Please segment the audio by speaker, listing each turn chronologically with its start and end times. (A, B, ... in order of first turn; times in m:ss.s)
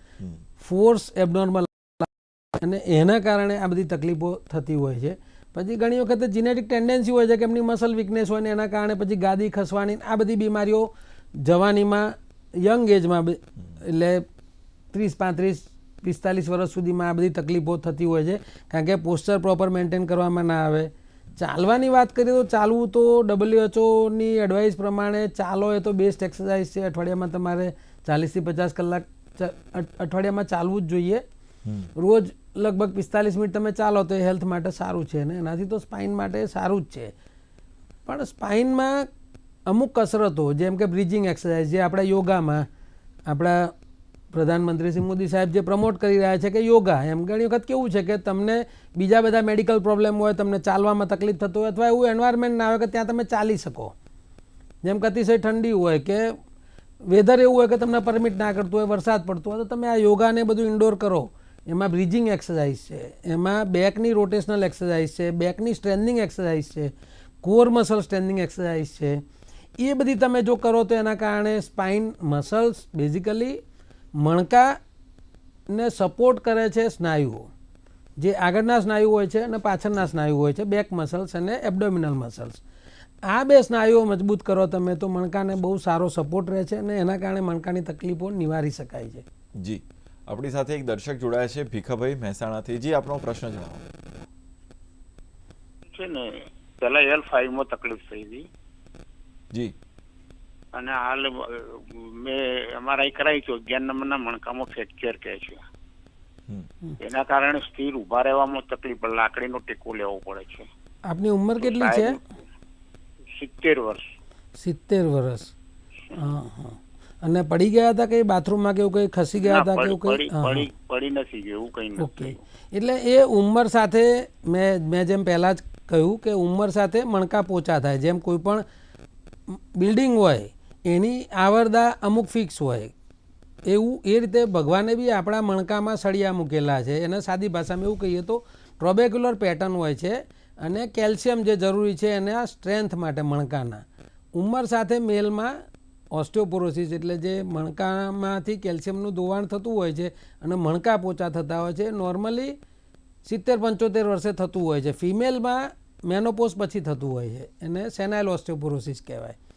0:00.6-0:10.9 A
0:11.4-0:14.2 A
0:14.9-0:31.2 A
0:31.6-0:31.9 B
0:32.0-0:37.1 A
0:38.0-0:39.1 A
0:39.7-0:42.7 A
0:43.3-0:43.7 A
0:44.3-0:53.9 A
0:54.8-0:56.3 A
0:57.1-1:09.2 A
1:09.8-1:13.6 A
1:14.2-1:14.8 A
1:15.7-1:17.5 A
1:18.2-1:22.6 A
1:23.3-1:29.2 A
1:29.6-1:33.9 B
1:35.9-1:38.4 C
1:40.7-1:45.6 C
1:47.0-1:50.7 C
1:51.1-1:52.2 A
1:51.6-1:52.2 C
1:53.3-1:54.0 C
1:54.6-1:55.5 A
1:56.1-2:00.7 A
1:59.4-2:02.4 C
2:02.0-2:08.6 A
2:09.7-2:12.9 A
2:13.7-2:23.8 A
2:24.4-2:25.5 A
2:26.1-2:32.6 A
2:33.2-2:39.4 A